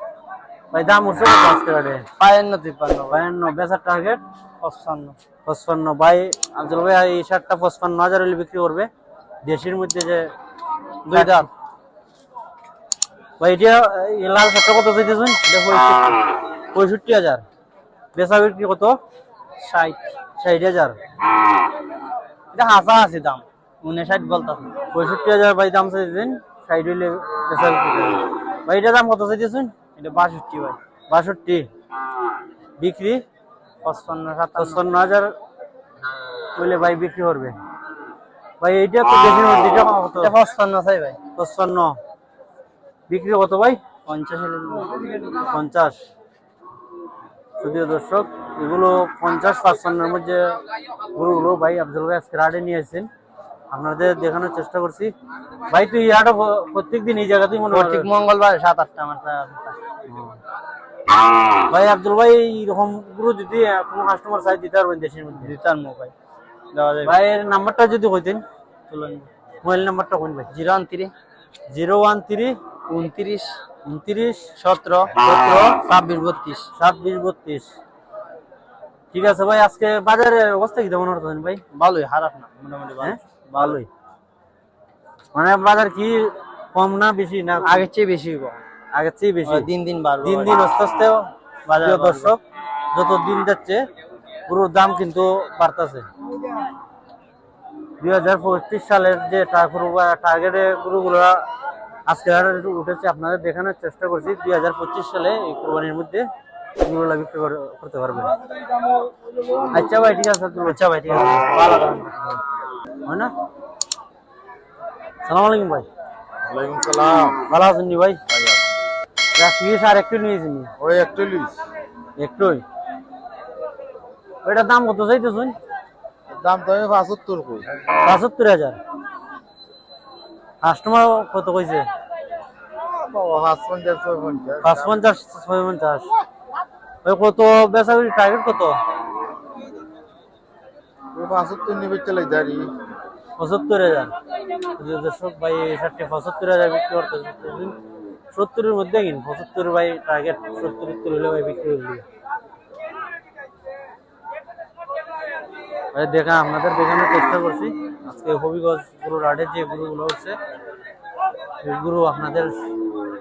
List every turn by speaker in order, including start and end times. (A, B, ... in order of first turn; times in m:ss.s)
0:00.7-0:02.0 A
0:02.2-0:03.2 B
0:03.1-0:04.2 A
0:04.6-0:05.2 B
0:05.4-0:08.9 A
0:09.4-0:10.3 A
0:11.0-0:11.5 A
0:11.1-0:11.5 B
0:13.4-0:15.6 A
0:15.5-0:16.1 B
0:16.7-0:17.4 A
0:18.1-0:19.0 A
0:19.6-0:20.1 B
0:20.4-0:21.0 A
0:22.5-0:24.7 B
0:24.9-0:29.7 A
0:30.0-0:30.8 B
0:31.1-0:31.7 A
0:32.8-0:33.2 A
0:33.8-0:34.8 B
0:34.6-0:35.3 A
0:36.5-0:37.6 A
0:38.6-0:40.3 A
0:40.2-0:41.2 B
0:41.4-0:42.0 A
0:43.1-0:43.8 A
0:44.0-0:45.2 B
0:45.4-0:46.0 A
0:47.6-0:50.6 A
0:51.1-0:53.1 A
0:53.7-0:55.1 A
0:55.7-0:58.1 A
0:57.7-0:59.8 B
1:00.1-1:00.4 A
1:01.7-1:05.5 A
1:05.4-1:06.1 B
1:06.7-1:07.2 B
1:07.0-1:08.4 A
1:08.9-1:09.3 B
1:09.6-1:10.5 A
1:10.5-1:11.1 B
1:11.7-1:12.6 A
1:12.9-1:13.6 B
1:13.8-1:14.5 A
1:14.6-1:16.7 B
1:15.2-1:15.8 A
1:16.8-1:17.7 A
1:19.1-1:21.6 A
1:21.7-1:23.8 B
1:23.0-1:23.9 A
1:25.3-1:27.8 A
1:27.6-1:28.6 B
1:28.9-1:29.7 A
1:29.4-1:30.6 B
1:30.2-1:32.4 A
1:31.7-1:32.3 B
1:32.9-1:33.8 A
1:34.5-1:36.0 A
1:38.0-1:41.4 A
1:42.1-1:46.3 A
1:46.8-1:48.3 A
1:49.7-1:51.8 A
1:50.6-1:52.3 B
1:53.0-1:53.3 A
1:55.2-1:55.9 A
1:56.5-1:57.3 C
1:57.5-1:58.2 A
1:59.4-2:00.7 A
2:00.8-2:01.5 C
2:02.2-2:02.6 A
2:04.4-2:05.6 A
2:06.3-2:07.6 C
2:08.0-2:08.8 A
2:10.6-2:11.8 A
2:13.1-2:14.6 C
2:14.6-2:16.1 A
2:17.0-2:18.8 A
2:21.2-2:22.7 C
2:23.4-2:24.1 A
2:24.8-2:27.8 A
2:28.3-2:32.0 A
2:35.9-2:40.4 A
2:41.6-2:42.6 A